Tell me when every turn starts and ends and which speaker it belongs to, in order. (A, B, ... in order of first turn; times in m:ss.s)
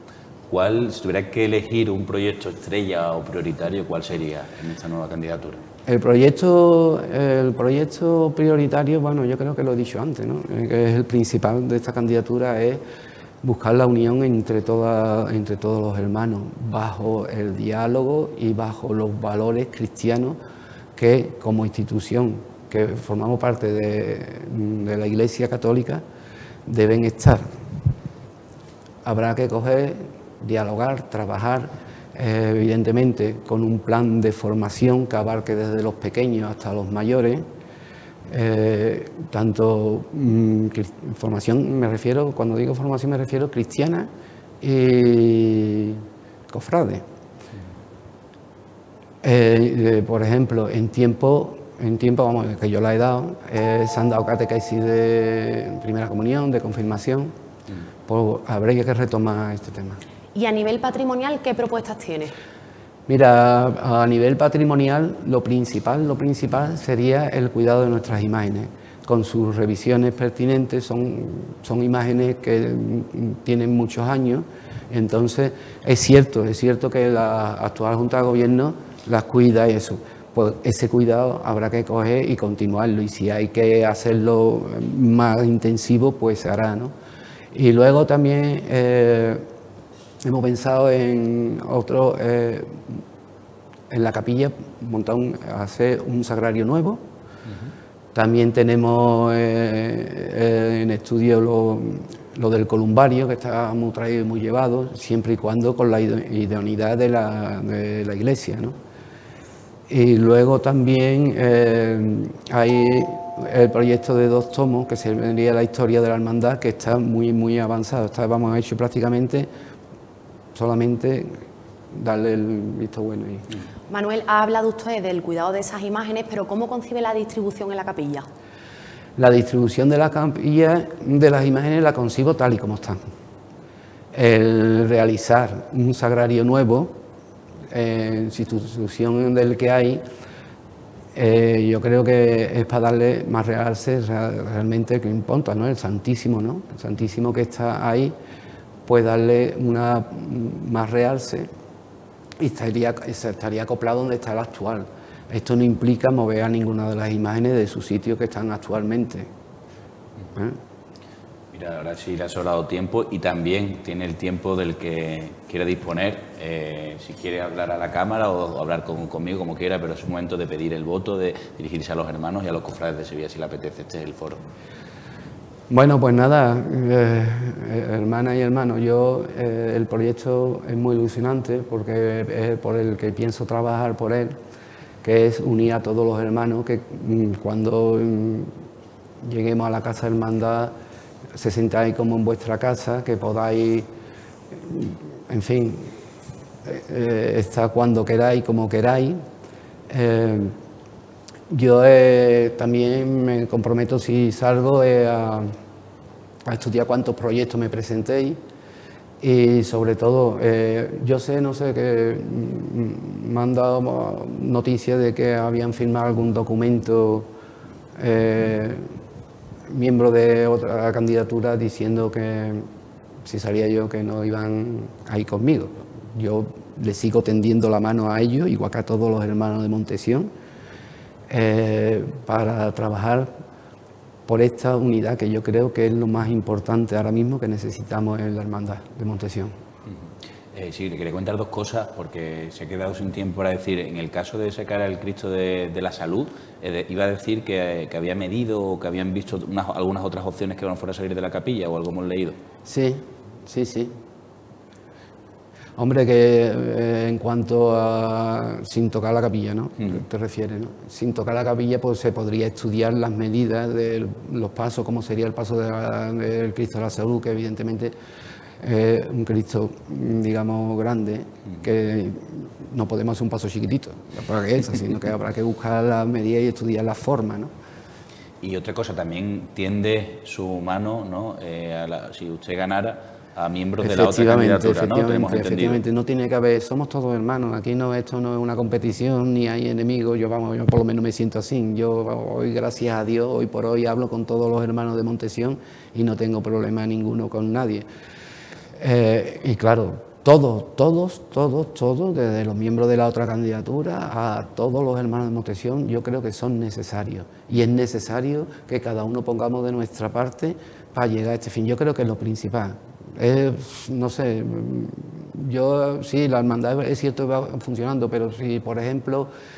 0:00.5-0:05.6 A
0:05.8-0:12.8 B
0:13.4-0:20.4 B
0:21.0-0:26.0 B
0:26.6-0:27.4 B
0:29.0-0:37.4 B
0:38.3-0:44.1 B
0:44.6-0:47.0 B
0:49.2-0:57.3 B
0:58.1-1:00.0 B
1:00.3-1:02.3 C
1:03.1-1:26.9 B
1:27.5-1:29.4 B
1:30.2-1:33.0 B
1:33.9-1:37.0 B
1:38.1-1:48.7 B
1:49.9-1:59.5 B
2:00.5-2:03.5 B
2:03.9-2:08.2 C
2:09.2-2:13.0 B
2:14.1-2:17.0 B
2:17.7-2:20.0 B
2:21.1-2:28.1 B
2:28.8-2:31.5 B
2:32.4-2:39.3 B
2:41.5-2:54.4 A
2:55.7-3:04.4 B
3:05.0-3:08.5 B
3:09.2-3:10.7 B
3:11.3-3:13.8 B
3:14.5-3:16.0 B
3:16.6-3:19.2 B
3:19.9-3:20.5 B
3:21.5-3:25.5 B
3:26.4-3:28.4 B
3:29.2-3:37.3 B
3:38.0-3:38.8 B
3:39.7-3:42.6 B
3:43.2-3:50.3 B
3:51.3-3:53.3 B
3:54.3-3:59.5 B
4:00.5-4:12.4 A
4:12.6-4:14.0 B
4:15.8-4:27.9 B
4:28.6-4:37.5 B
4:38.4-4:45.8 A
4:43.8-4:57.8 B
4:58.8-5:19.3 B